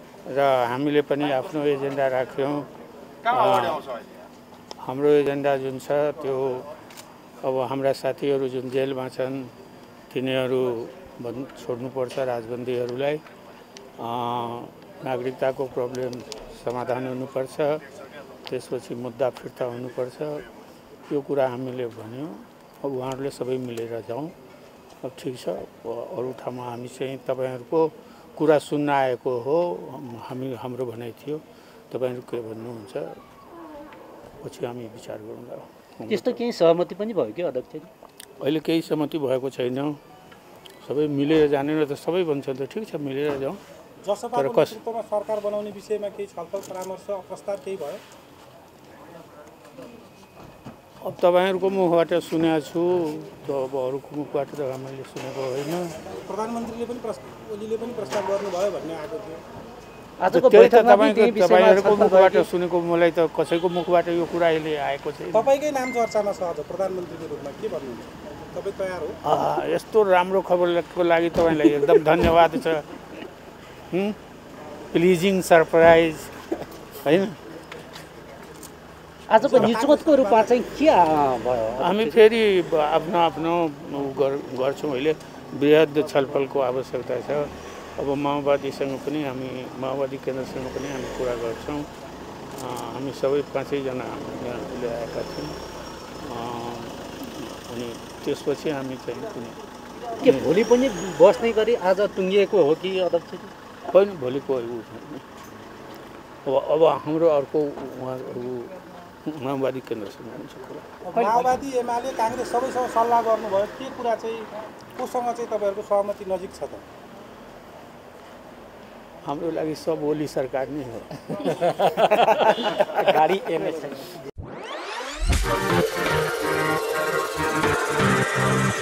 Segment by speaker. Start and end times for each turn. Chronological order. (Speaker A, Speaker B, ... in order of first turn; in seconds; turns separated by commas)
Speaker A: 0.3-2.7, Speaker A: 3.3-3.9, Speaker A: 4.8-6.7, Speaker A: 7.4-9.5, Speaker A: 10.1-13.2, Speaker A: 14.0-17.8, Speaker A: 18.5-20.4, Speaker A: 21.1-24.3, Speaker A: 25.0-33.2, Speaker A: 34.4-36.4, Speaker B: 36.1-37.9, Speaker A: 38.4-40.0, Speaker A: 40.8-43.6, Speaker C: 44.0-48.0, Speaker A: 44.4-44.8, Speaker A: 51.0-56.0, Speaker C: 56.1-59.4, Speaker B: 60.2-62.5, Speaker A: 60.3-65.5, Speaker C: 65.3-69.2, Speaker A: 69.2-72.9, Speaker A: 73.9-74.2, Speaker A: 74.9-76.5, Speaker A: 77.0-77.4, Speaker B: 79.3-82.2, Speaker C: 79.4-80.6, Speaker A: 81.8-91.9, Speaker A: 92.5-95.6, Speaker A: 96.2-99.6, Speaker B: 100.2-103.5, Speaker A: 100.2-100.5, Speaker A: 103.9-105.2, Speaker A: 106.5-110.8, Speaker C: 111.1-116.8, Speaker B: 111.1-111.5, Speaker A: 119.2-123.1, Speaker B: 121.7-124.0